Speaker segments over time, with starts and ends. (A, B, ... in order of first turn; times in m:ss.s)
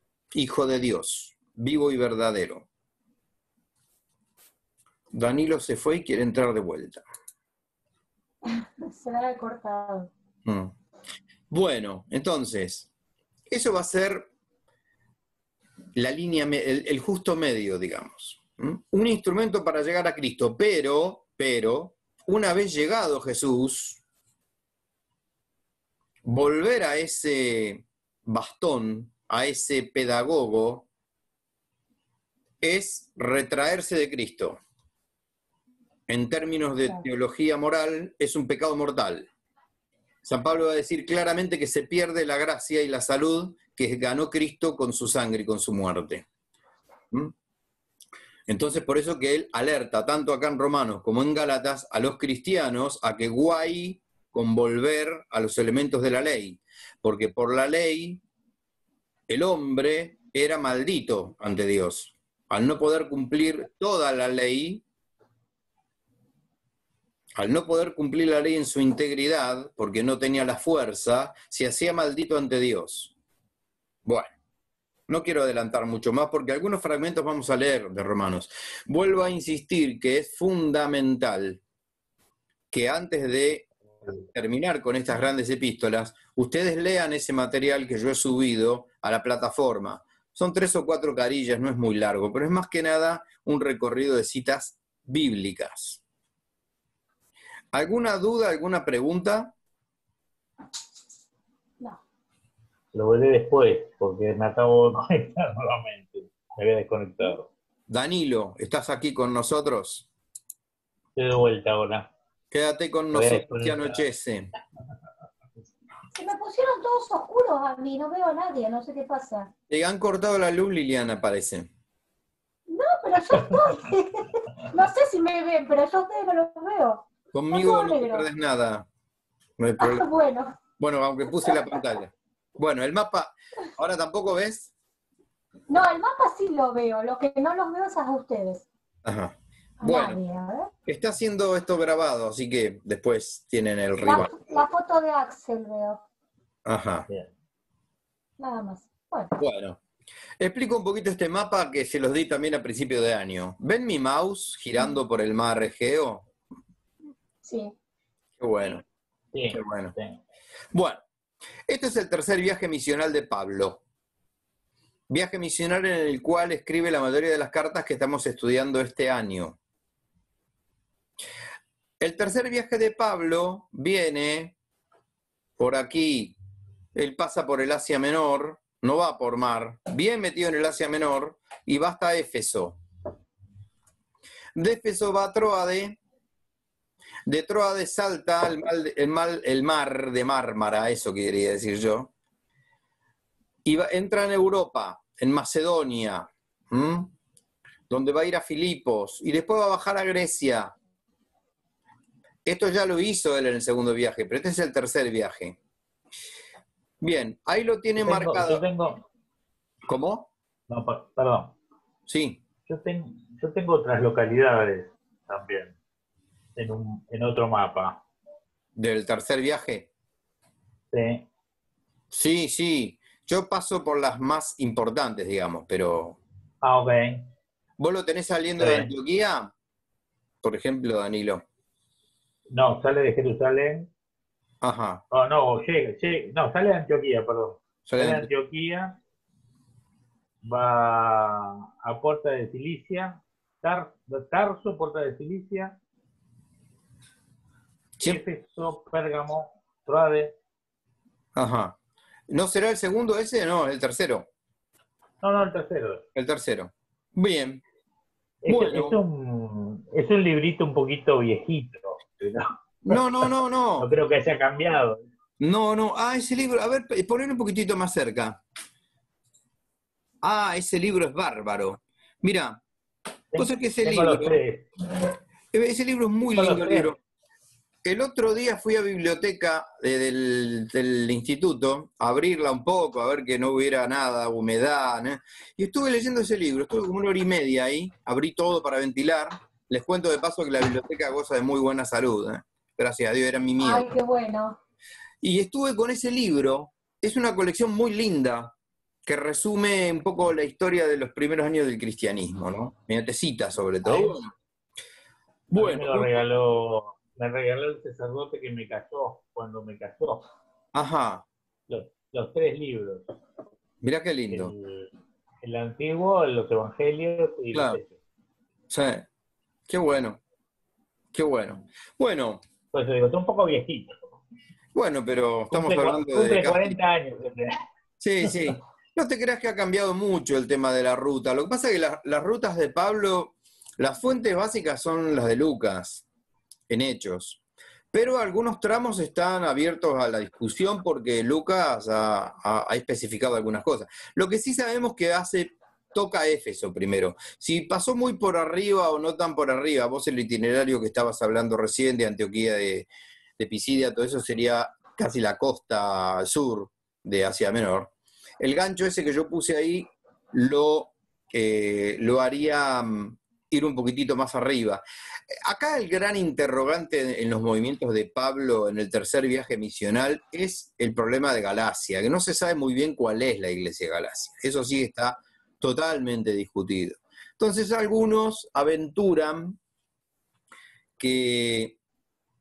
0:00.3-0:02.7 A
0:05.1-0:07.0 A
0:08.5-0:10.1 B
0:10.5-0:10.7 A
0:11.5-0:12.9 A
0:13.5-0:14.3 A
0:16.0-0:24.0 A
0:26.2-0:30.9 A
0:32.6-0:34.6 A
0:36.1-0:39.3 A
0:40.2-0:46.2 A
0:48.5-0:58.2 A
0:59.3-1:04.8 A
1:07.4-1:13.1 A
1:14.1-1:14.3 A
1:15.1-1:21.6 A
1:22.7-1:23.7 A
1:24.3-1:36.0 A
1:37.7-1:39.5 A
1:42.9-1:47.5 C
1:47.9-1:50.1 A
1:51.2-1:52.1 C
1:52.5-1:54.5 A
1:53.1-1:54.0 C
1:56.1-1:59.5 B
1:59.7-2:01.7 A
2:02.7-2:08.2 B
2:07.3-2:08.9 A
2:09.6-2:10.1 A
2:09.8-2:10.6 B
2:10.8-2:14.7 A
2:15.7-2:18.7 B
2:19.0-2:20.2 A
2:19.8-2:20.7 B
2:20.9-2:24.4 A
2:24.0-2:26.0 B
2:26.7-2:27.1 A
2:28.4-2:29.4 B
2:29.4-2:29.8 A
2:30.4-2:36.3 A
2:37.4-2:37.7 B
2:38.4-2:38.8 A
2:39.3-2:40.2 C
2:39.5-2:40.0 A
2:40.7-2:41.0 A
2:41.7-2:43.8 A
2:45.1-2:49.6 A
2:52.0-2:54.6 A
2:55.6-2:56.4 A
2:57.0-3:02.8 A
3:04.6-3:06.0 A
3:07.3-3:12.1 A
3:13.6-3:17.1 A
3:17.9-3:20.7 A
3:22.4-3:25.6 A
3:27.0-3:28.6 A
3:28.0-3:29.0 C
3:29.9-3:30.3 A
3:30.7-3:31.6 C
3:32.1-3:32.4 A
3:32.7-3:35.8 C
3:36.6-3:38.0 C
3:38.8-3:39.9 A
3:40.9-3:41.3 C
3:42.1-3:46.2 A
3:46.6-3:47.3 C
3:47.8-3:49.5 A
3:48.6-3:48.9 C
3:50.4-3:51.4 A
3:52.5-3:53.9 C
3:54.6-3:55.0 A
3:55.1-3:59.0 C
3:57.9-3:58.3 A
4:00.4-4:05.8 C
4:08.0-4:10.4 C
4:11.4-4:11.8 A
4:12.3-4:14.3 A
4:15.2-4:16.0 C
4:16.2-4:17.6 A
4:18.4-4:23.3 C
4:18.4-4:19.0 A
4:22.8-4:23.9 A
4:23.8-4:25.0 C
4:25.4-4:28.4 A
4:30.2-4:32.6 A
4:33.3-4:34.7 C
4:33.4-4:34.4 A
4:35.5-4:37.0 A
4:36.3-4:36.9 C
4:37.8-4:53.9 A
4:53.6-4:54.6 B
4:55.2-4:58.5 A
4:59.0-5:04.3 A
5:03.8-5:04.2 C
5:05.5-5:06.2 A
5:05.5-5:10.3 C
5:10.7-5:11.2 A
5:11.7-5:13.2 C
5:13.8-5:14.5 A
5:14.3-5:14.9 C
5:15.4-5:17.9 C
5:17.5-5:17.8 A
5:18.7-5:19.1 A
5:19.7-5:20.2 A
5:21.1-5:22.4 A
5:22.7-5:24.0 C
5:24.8-5:26.8 A
5:25.5-5:27.6 C
5:28.0-5:36.0 A
5:36.7-5:37.4 A
5:37.9-5:52.9 A
5:53.4-6:19.6 A
6:21.0-6:21.8 A